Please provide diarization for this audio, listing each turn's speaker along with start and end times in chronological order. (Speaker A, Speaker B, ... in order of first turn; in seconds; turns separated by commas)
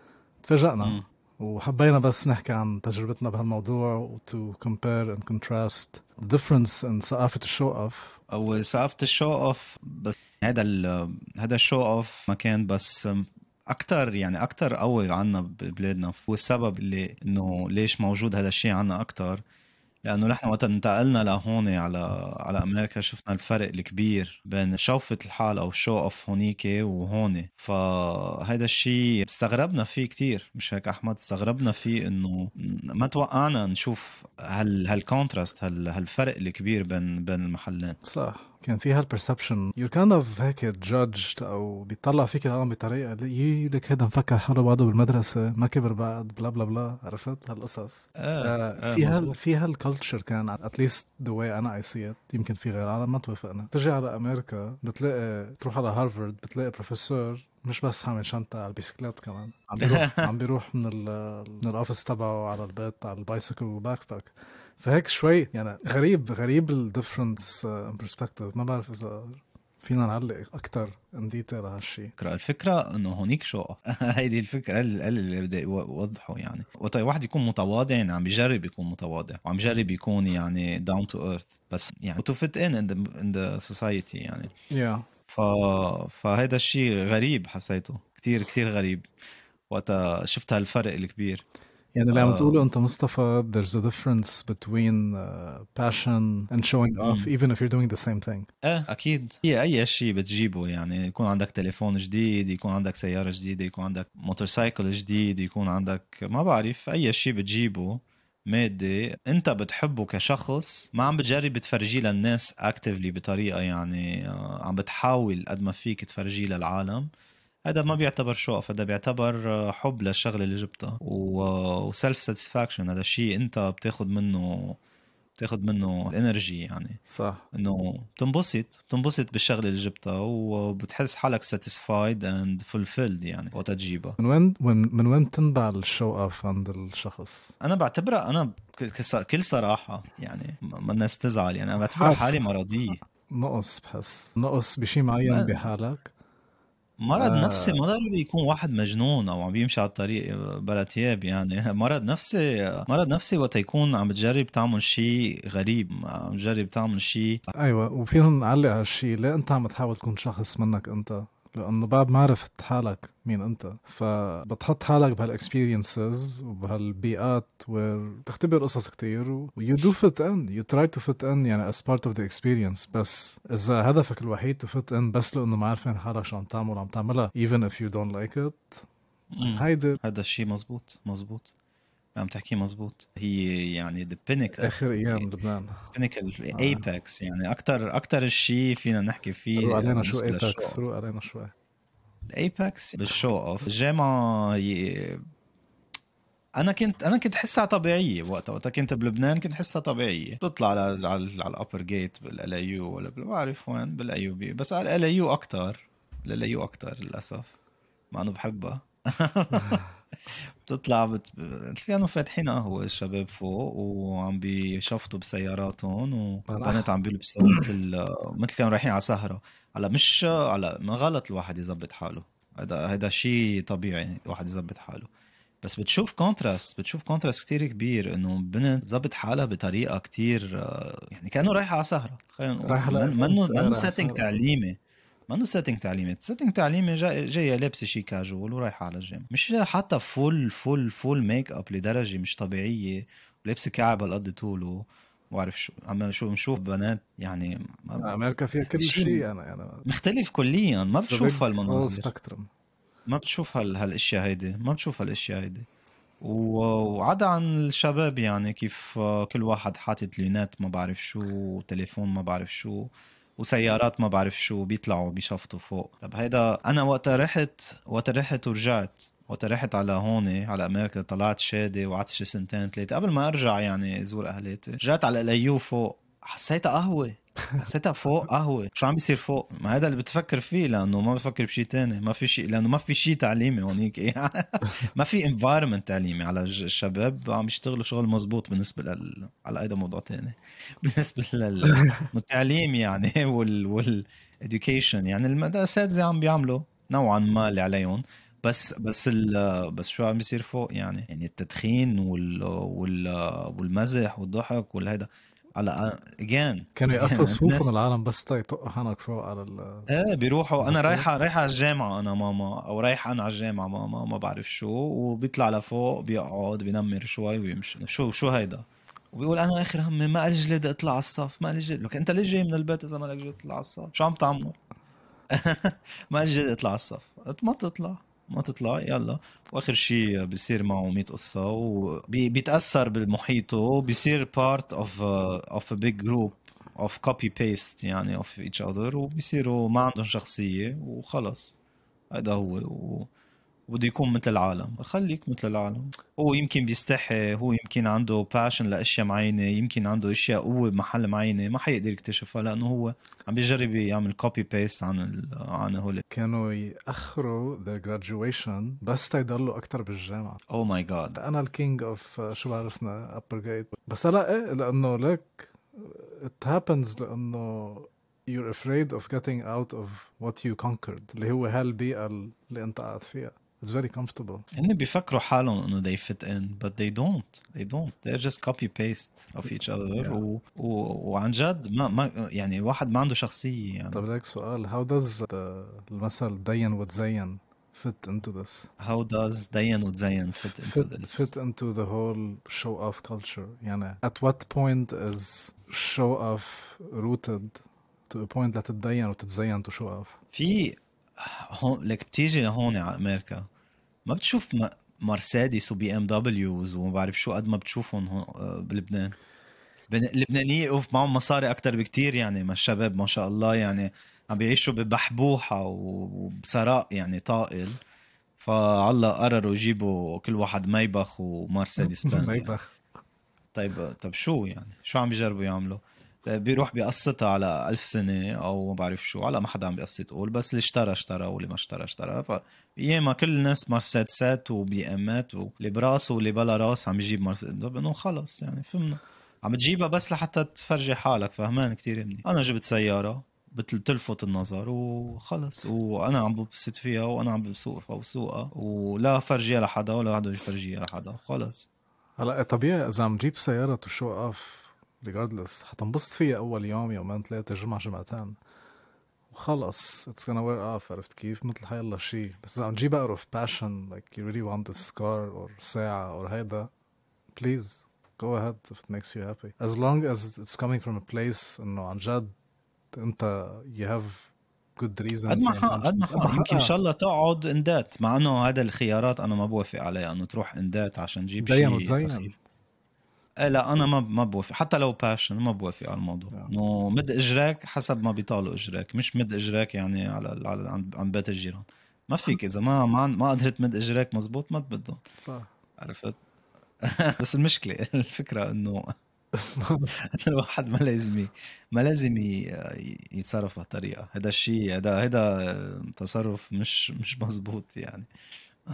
Speaker A: 0.4-8.2, Speaker B: 8.3-19.4, Speaker B: 20.1-38.0, Speaker A: 38.0-72.1, Speaker B: 48.2-49.4, Speaker B: 59.8-60.2, Speaker B: 72.2-84.5, Speaker A: 84.7-85.0, Speaker B: 85.3-89.1, Speaker B: 89.7-91.4, Speaker A: 92.0-98.5, Speaker B: 92.1-92.6, Speaker B: 97.0-97.3, Speaker B: 98.6-117.1, Speaker B: 117.7-124.8, Speaker B: 125.4-127.0, Speaker A: 127.1-127.5, Speaker B: 127.5-134.2, Speaker A: 134.2-137.6, Speaker B: 137.6-143.0, Speaker A: 141.9-142.4, Speaker A: 143.3-146.1, Speaker B: 145.3-145.7, Speaker B: 147.0-157.4, Speaker A: 147.2-147.8, Speaker A: 157.6-178.9, Speaker B: 179.3-181.5, Speaker A: 179.4-180.0, Speaker B: 182.2-185.3, Speaker A: 184.6-185.8, Speaker B: 185.9-190.8, Speaker A: 186.5-186.8, Speaker A: 189.6-191.5, Speaker B: 192.3-195.2, Speaker B: 196.6-207.5, Speaker B: 208.1-225.1, Speaker A: 216.5-216.9, Speaker A: 217.4-217.7, Speaker B: 225.6-234.8, Speaker A: 232.6-234.3, Speaker B: 235.3-248.1, Speaker A: 248.0-249.9, Speaker B: 248.7-249.3, Speaker B: 249.9-252.1, Speaker A: 251.0-252.5, Speaker B: 253.1-255.7, Speaker B: 256.2-307.7, Speaker A: 291.7-292.1, Speaker A: 306.8-309.9, Speaker B: 309.9-324.6, Speaker A: 310.6-311.1, Speaker B: 325.3-341.6, Speaker B: 342.1-343.1, Speaker B: 343.7-356.0, Speaker A: 356.1-360.4, Speaker B: 360.5-361.2, Speaker A: 361.1-374.4, Speaker B: 374.5-384.0, Speaker A: 379.9-380.2, Speaker A: 383.9-388.7, Speaker B: 388.8-391.3, Speaker A: 390.4-400.2, Speaker B: 400.3-403.4, Speaker B: 404.1-409.1, Speaker B: 409.9-417.8, Speaker B: 418.4-422.6, Speaker A: 421.8-422.7, Speaker B: 423.5-451.7, Speaker A: 452.2-458.4, Speaker A: 459.3-466.7, Speaker A: 467.4-472.3, Speaker A: 472.9-476.7, Speaker B: 475.3-482.3, Speaker A: 481.4-482.4, Speaker B: 483.4-495.0, Speaker A: 495.2-495.5, Speaker B: 495.8-496.1, Speaker B: 496.8-498.9, Speaker A: 499.4-499.9, Speaker B: 499.9-508.1